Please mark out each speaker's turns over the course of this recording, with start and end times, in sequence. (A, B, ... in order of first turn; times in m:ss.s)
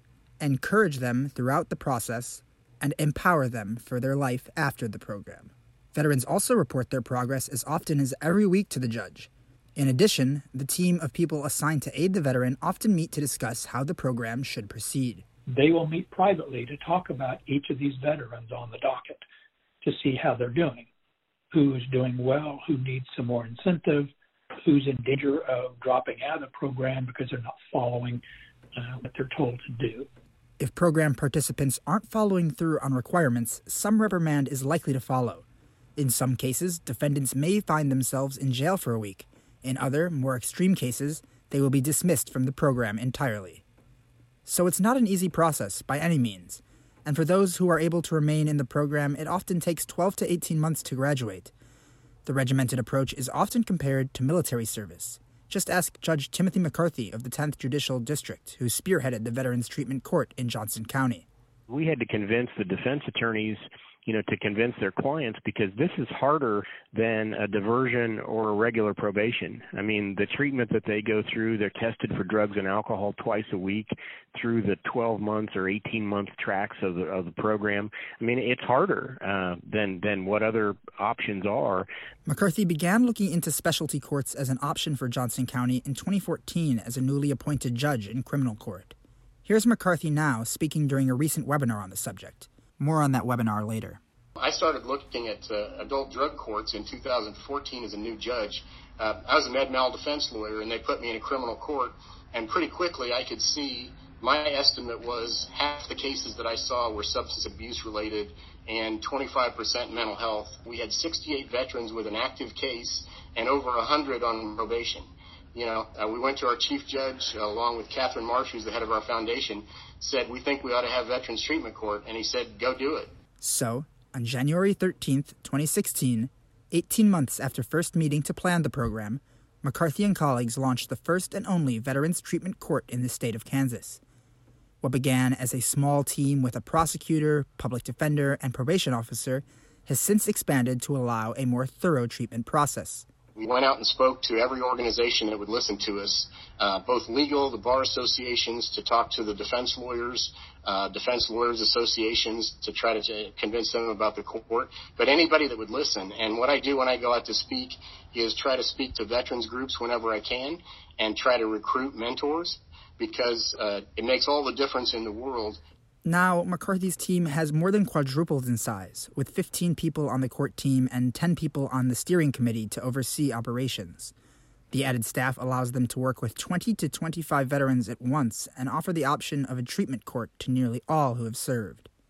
0:00.4-0:15.2 A
0:15.5-0:19.2 B
0:19.8-0:20.9 B
0:21.5-0:28.2 B
0:28.8-0:30.1 B
0:30.6-0:35.4 A
0:36.0-0:43.6 A
0:44.5-0:51.5 A
0:52.3-1:01.3 A
1:01.7-1:21.9 C
1:22.3-1:28.9 A
1:29.5-1:34.0 A
1:34.4-1:55.0 D
1:55.6-2:03.1 D
2:03.4-2:14.0 A
2:14.8-2:23.1 A
2:23.4-2:45.6 D
2:46.0-2:54.1 A
2:54.7-3:01.9 A